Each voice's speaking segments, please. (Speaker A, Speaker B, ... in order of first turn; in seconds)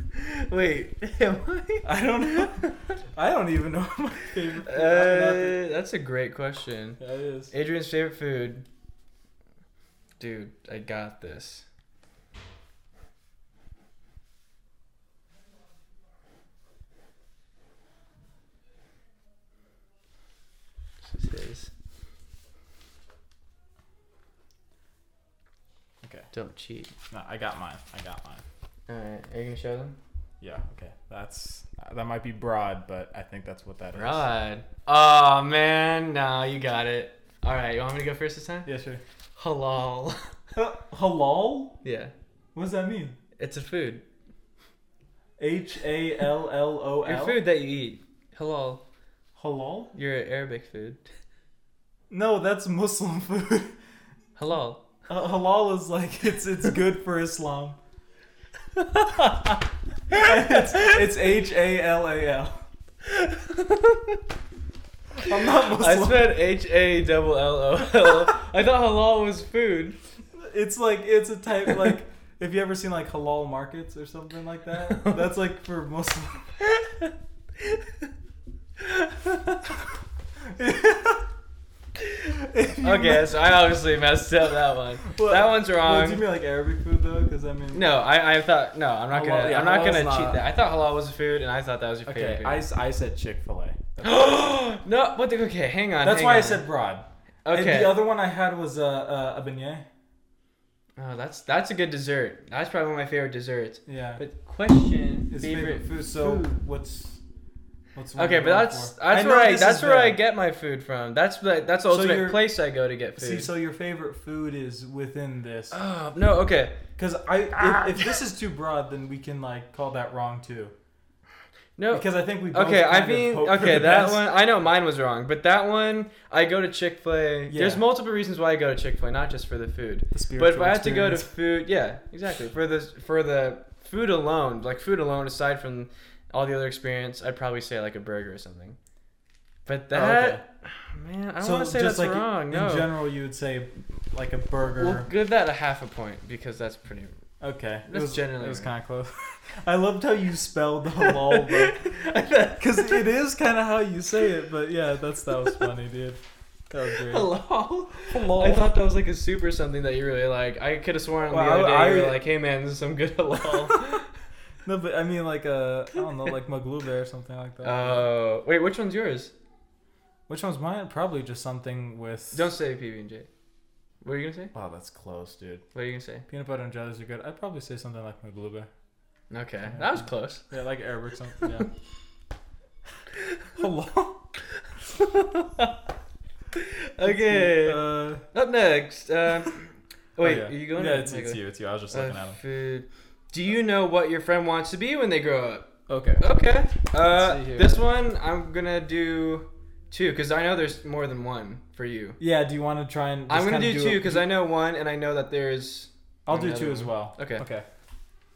Speaker A: 0.1-3.0, 4.6-7.0, 7.5-8.7, 10.2-11.7, 21.0-21.7, 26.3-26.9, 28.9-29.9, 33.9-38.7, 39.4-40.3, 41.8-42.1, 43.4-44.0, 47.0-48.8, 49.9-51.0, 54.4-54.9, 58.8-61.0, 63.0-64.2, 65.3-70.0, 74.9-75.2, 76.7-77.1, 78.8-79.3, 82.8-86.2, 87.7-92.6, 94.0-96.6, 97.4-98.0, 101.0-106.6, 108.2-113.5, 115.7-116.8, 117.6-118.1, 121.8-138.8, 139.7-142.9, 144.8-147.1, 147.9-148.7, 151.0-153.1, 157.0-164.1, 167.6-169.3, 172.3-173.3, 174.0-174.5, 175.7-176.2, 179.3-180.4, 184.6-185.8, 186.5-202.2, 203.3-207.4
Speaker B: 1.8-5.6, 7.0-7.5, 26.0-26.3, 27.1-28.4, 30.4-34.2, 38.6-39.0, 40.5-41.7, 42.5-43.2, 45.4-47.4, 49.4-49.9, 52.1-53.7, 55.1-57.8, 60.1-62.6, 65.2-66.3, 70.3-76.6, 80.4-81.3, 82.3-83.5, 85.0-87.8, 89.1-90.4, 92.0-94.4, 96.0-99.8, 103.9-104.2, 105.3-107.2, 107.9-110.2, 111.9-112.5, 113.2-115.8, 117.0-120.7, 121.9-124.3, 127.5-127.8, 130.1-131.3, 139.9-140.4, 141.4-145.1, 147.4-151.8, 152.6-157.3, 158.0-158.7, 161.3-162.2, 163.5-163.8, 164.6-168.0, 170.3-172.5, 174.5-175.6, 176.3-178.7, 179.7-181.7, 183.6-184.2, 187.0-188.2, 190.2-192.4, 195.9-196.2, 197.0-197.8, 202.2-204.3, 206.3-207.7